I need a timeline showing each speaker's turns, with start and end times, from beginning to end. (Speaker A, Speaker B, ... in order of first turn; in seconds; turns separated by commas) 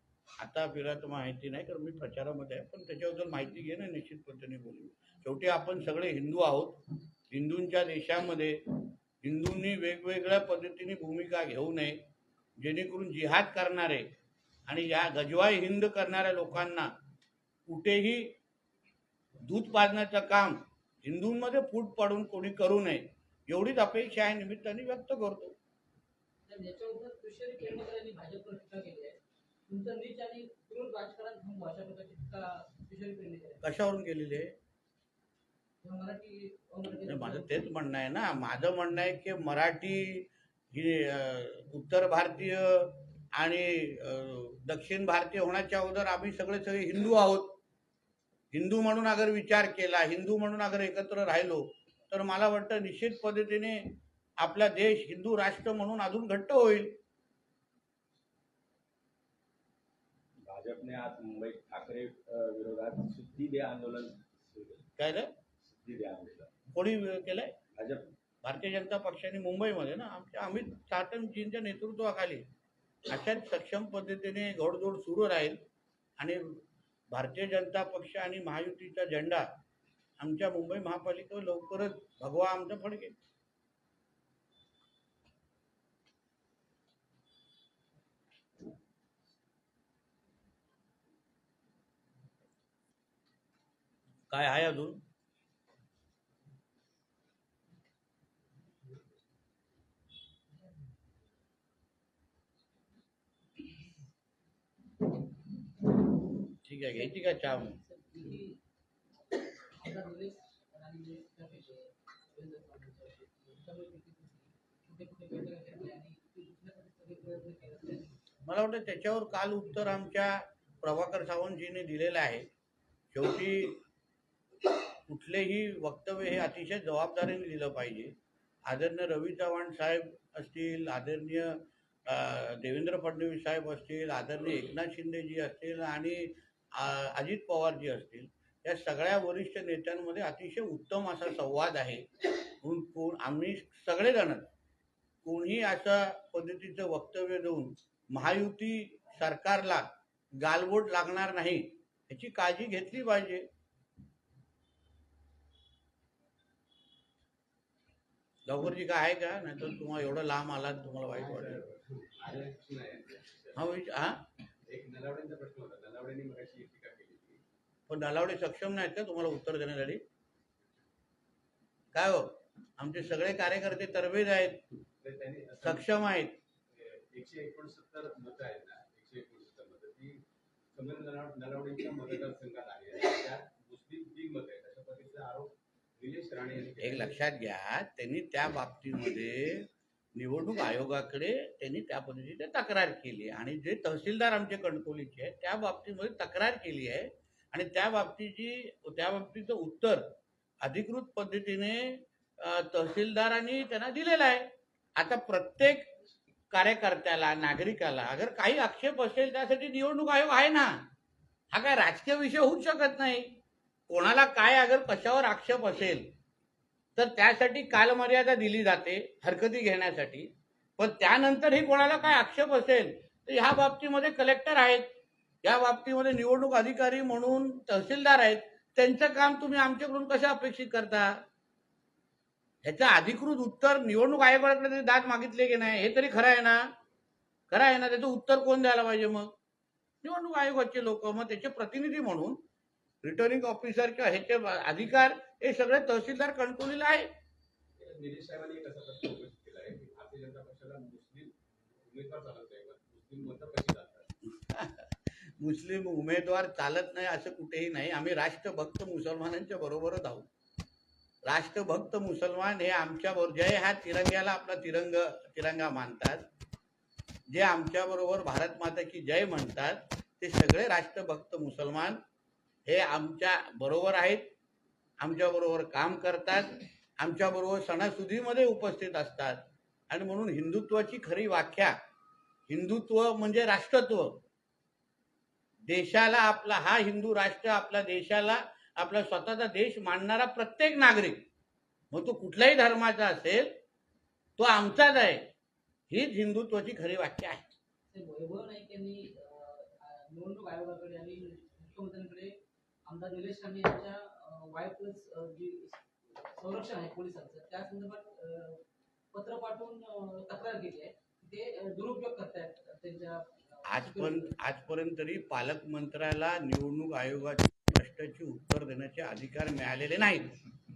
Speaker A: 0.4-12.0, Speaker A: 12.6-14.1, Speaker A: 14.7-16.9, Speaker A: 17.6-18.3, Speaker A: 19.4-25.6, Speaker B: 26.4-29.2, Speaker B: 29.7-33.6, Speaker A: 33.6-34.5, Speaker B: 35.8-37.6, Speaker A: 37.0-47.5, Speaker A: 48.5-57.0, Speaker C: 60.4-64.9, Speaker A: 65.0-65.3, Speaker C: 65.6-66.5, Speaker A: 66.7-67.5, Speaker C: 67.7-68.1, Speaker A: 68.4-72.5, Speaker A: 73.0-75.6, Speaker A: 76.2-79.5, Speaker A: 80.2-83.2, Speaker A: 94.3-95.0, Speaker A: 106.6-107.8, Speaker B: 106.9-108.6, Speaker B: 109.8-118.2, Speaker A: 118.4-122.5, Speaker A: 123.1-123.8, Speaker A: 125.0-128.1, Speaker A: 128.7-142.1, Speaker A: 142.6-144.5, Speaker A: 145.2-149.8, Speaker A: 150.4-153.5, Speaker A: 158.4-161.6, Speaker D: 161.1-163.6, Speaker A: 163.5-164.2, Speaker D: 164.7-167.4, Speaker A: 167.9-170.0, Speaker A: 171.9-174.6, Speaker D: 175.0-175.9, Speaker A: 175.6-176.3, Speaker D: 176.7-180.2, Speaker D: 180.7-187.2, Speaker A: 186.8-205.9, Speaker A: 206.5-210.8, Speaker A: 211.5-216.1, Speaker A: 216.9-224.9, Speaker A: 225.4-231.2, Speaker A: 232.6-236.7, Speaker A: 237.5-239.3, Speaker A: 240.0-242.4, Speaker A: 243.0-247.1, Speaker D: 247.8-254.1, Speaker A: 254.3-260.3, Speaker A: 261.2-266.2, Speaker A: 267.3-272.0, Speaker A: 272.6-274.3, Speaker A: 275.0-281.8, Speaker A: 282.5-284.2, Speaker A: 285.6-291.2, Speaker A: 291.9-293.5, Speaker A: 294.4-295.3, Speaker A: 295.9-297.5, Speaker B: 297.9-305.8, Speaker B: 306.3-314.3, Speaker A: 313.6-320.4